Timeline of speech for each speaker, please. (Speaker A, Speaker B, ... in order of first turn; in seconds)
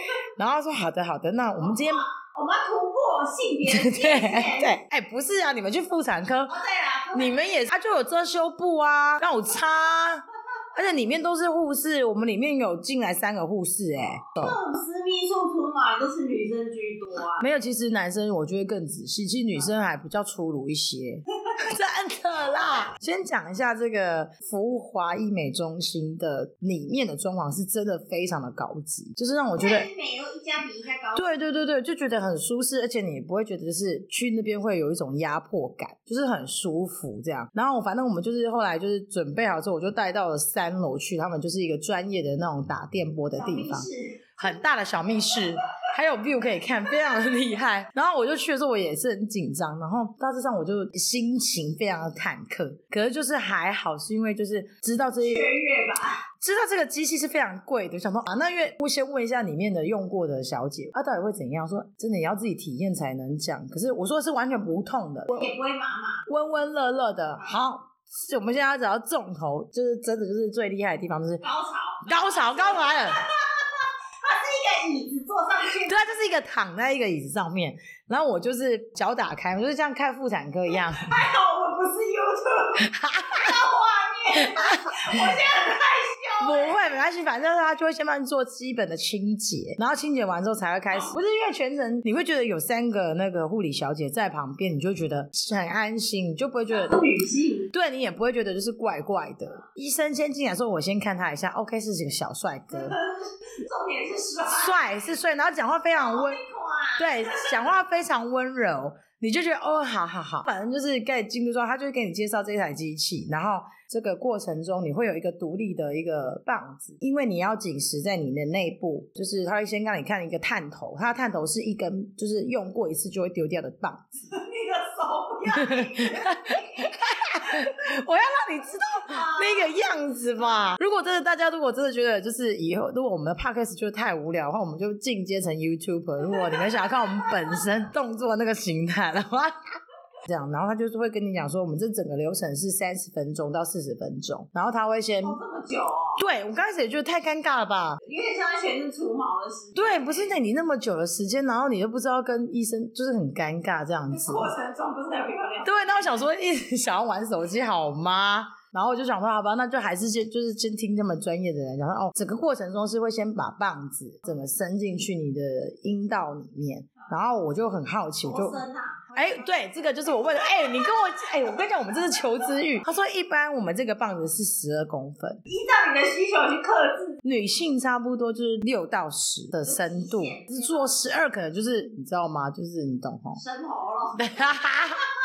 Speaker A: 0.4-2.1, 3.6-6.6, 7.1-14.6, 17.4-29.9, 31.1-55.5, 56.4-65.5, 66.3-71.4, 72.0-73.2, 75.8-81.3, 82.8-83.6, 84.3-85.3, 86.4-97.0, 97.7-103.0, 104.5-106.4, 107.0-124.2, 125.5-139.5, 140.3-145.4, 146.2-148.0, 149.8-154.5, 155.6-168.6, 169.2-175.4, 177.2-183.4, 184.2-185.1
Speaker B: 1.7-4.8, 6.5-7.7, 14.4-17.4, 29.6-31.3, 43.3-44.3, 55.1-56.2, 65.3-66.2, 71.4-76.0, 80.7-86.8, 96.7-97.7, 102.7-104.8, 105.9-107.5, 124.3-127.5, 129.1-129.7, 136.3-137.3, 145.2-146.2, 148.0-150.3, 154.1-156.2, 168.3-169.8, 175.5-177.2, 179.6-181.0, 183.3-184.3